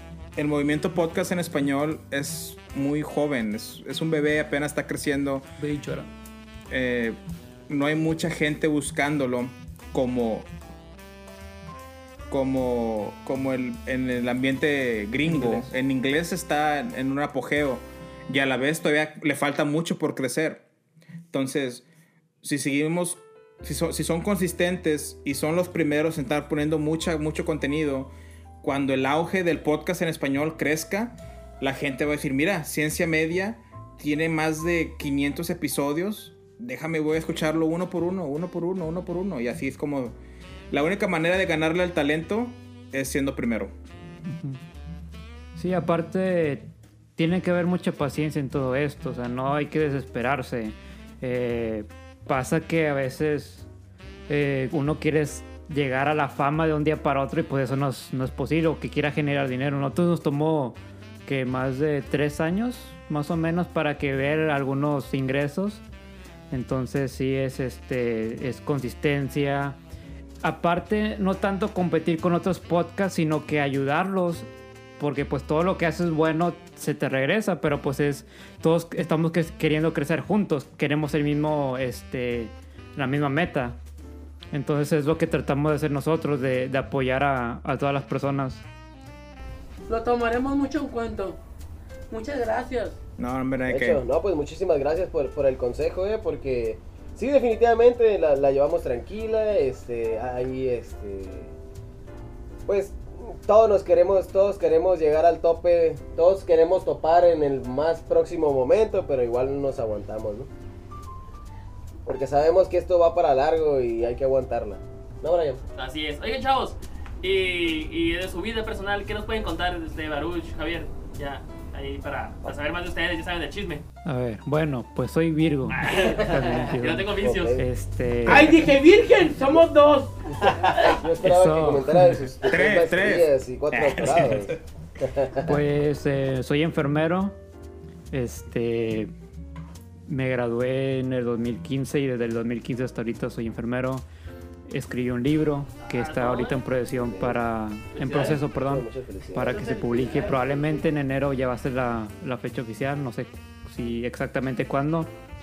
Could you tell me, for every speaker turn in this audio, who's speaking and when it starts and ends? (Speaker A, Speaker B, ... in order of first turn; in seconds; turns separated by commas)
Speaker A: 0.4-5.5, Speaker B: 5.6-6.1, Speaker A: 6.7-10.5, Speaker A: 12.3-20.6, Speaker B: 15.3-15.7, Speaker A: 21.3-21.9, Speaker A: 22.4-40.2, Speaker A: 40.7-43.7, Speaker B: 44.3-44.6, Speaker B: 45.6-53.7, Speaker B: 54.3-65.8, Speaker B: 66.5-69.8, Speaker B: 70.4-83.8, Speaker B: 84.5-88.7, Speaker C: 89.9-91.4, Speaker C: 92.1-93.0, Speaker A: 93.2-94.0, Speaker D: 93.7-101.5, Speaker D: 102.7-110.5, Speaker D: 112.1-115.6, Speaker E: 115.8-123.8, Speaker B: 124.0-128.6, Speaker E: 125.7-127.6, Speaker D: 127.2-127.7, Speaker C: 128.3-130.9, Speaker D: 130.4-135.6, Speaker B: 131.2-132.3, Speaker A: 132.4-134.6, Speaker B: 135.4-137.4, Speaker B: 138.1-139.1, Speaker B: 140.1-144.1, Speaker B: 144.7-155.1, Speaker E: 145.9-146.6, Speaker D: 146.9-147.4, Speaker E: 147.9-148.4, Speaker D: 148.1-150.9